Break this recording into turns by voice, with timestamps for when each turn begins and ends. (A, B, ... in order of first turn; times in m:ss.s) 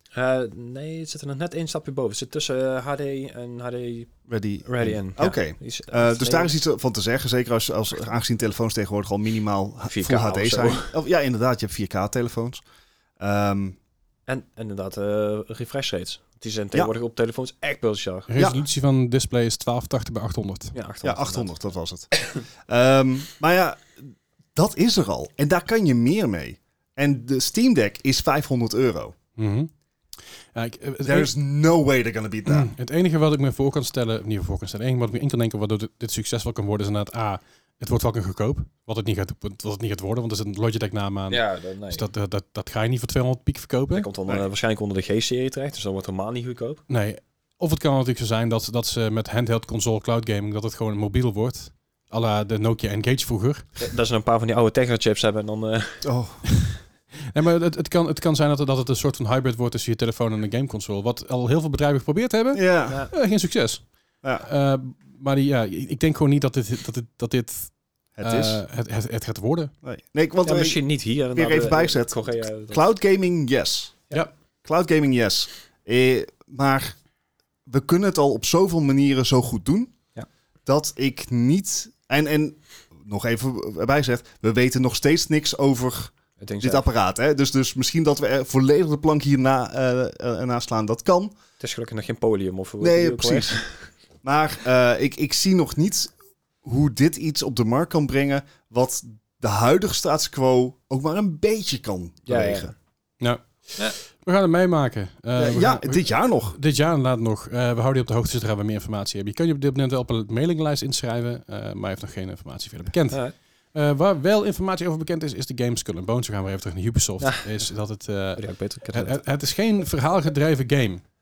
0:00.1-0:04.1 A
0:04.3-0:12.6 B
0:04.7-0:06.5 A
0:09.9-0:10.9 A
0:13.2-0:13.8 B
0:14.3-0:18.3 A
0:18.3-0:20.8 C
0:20.7-0:21.5 A
0:21.0-0:29.2 B
0:29.4-0:29.7 C
0:30.5-0:31.3 C
0:31.0-0:32.7 B
0:32.5-0:44.1 C
0:41.3-0:42.1 A
0:43.9-0:46.8 A
0:46.9-0:53.7 C
0:53.8-0:56.1 A
0:56.0-0:56.4 B
0:57.2-1:03.9 C
1:02.5-1:03.1 B
1:04.4-1:09.7 C
1:08.2-1:08.6 B
1:09.8-1:14.0 B
1:10.4-1:12.8 A
1:14.6-1:17.0 B
1:17.7-1:20.0 B
1:20.7-1:31.4 B
1:26.4-1:26.9 A
1:31.6-1:33.8 A
1:32.8-1:33.7 B
1:34.2-1:36.1 B
1:36.6-1:42.7 B
1:42.3-1:42.7 A
1:43.2-2:01.0 C
1:45.4-1:46.6 B
1:58.4-1:59.2 A